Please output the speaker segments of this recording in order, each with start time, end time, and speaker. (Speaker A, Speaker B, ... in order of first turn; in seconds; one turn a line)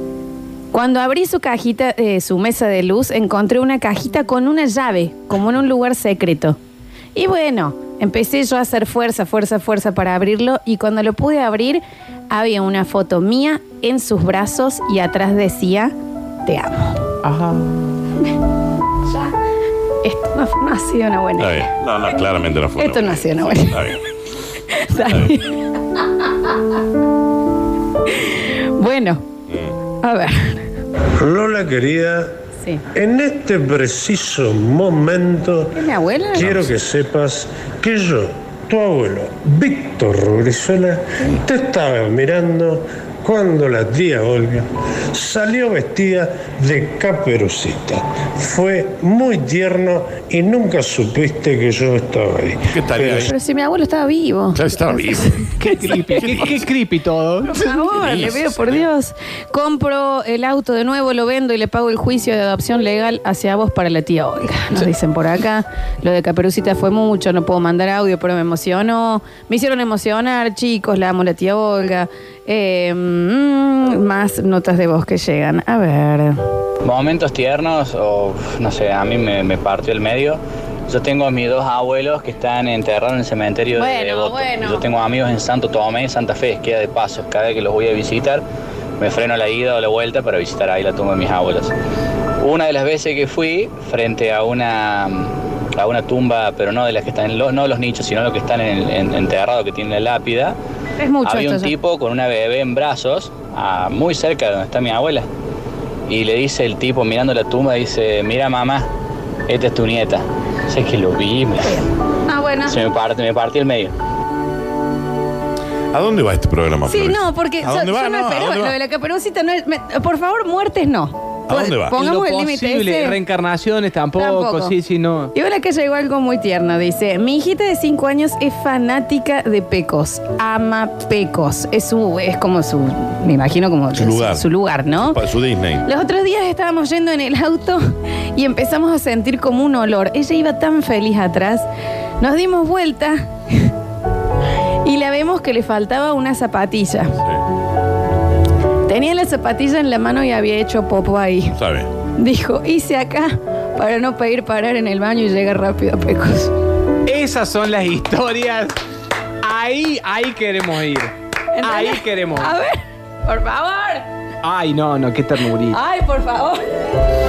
Speaker A: 0.7-6.6
Speaker A: 7.1-15.9
Speaker A: 16.4-17.1
Speaker B: 17.2-17.8
Speaker A: 20.0-21.7
Speaker C: 21.4-24.0
Speaker A: 22.8-23.9
Speaker A: 24.7-26.0
Speaker A: 28.1-29.2
Speaker C: 29.5-29.7
Speaker A: 30.0-30.6
Speaker D: 31.2-32.3
Speaker D: 32.9-35.8
Speaker A: 35.7-36.6
Speaker D: 36.3-53.3
Speaker C: 52.7-53.3
Speaker A: 53.1-56.3
Speaker C: 54.5-55.5
Speaker B: 55.6-57.5
Speaker C: 56.2-56.6
Speaker A: 57.4-76.4
Speaker C: 57.6-58.8
Speaker E: 76.8-88.4
Speaker A: 83.8-84.8
Speaker E: 89.0-91.7
Speaker E: 92.4-100.6
Speaker A: 101.0-101.7
Speaker E: 101.2-105.3
Speaker E: 106.1-108.9
Speaker E: 109.5-111.8
Speaker A: 111.6-112.8
Speaker E: 112.7-113.9
Speaker C: 115.9-118.8
Speaker A: 116.8-123.2
Speaker C: 121.5-121.9
Speaker B: 121.9-125.3
Speaker A: 124.2-124.7
Speaker A: 125.3-135.2
Speaker C: 133.9-134.4
Speaker C: 135.0-135.8
Speaker A: 135.8-141.7
Speaker A: 142.2-143.7
Speaker A: 144.8-147.1
Speaker A: 148.9-151.6
Speaker C: 151.5-151.9
Speaker A: 152.2-156.5
Speaker B: 157.1-158.7
Speaker B: 159.4-162.5
Speaker A: 161.5-164.1
Speaker B: 164.4-165.8
Speaker A: 165.7-166.8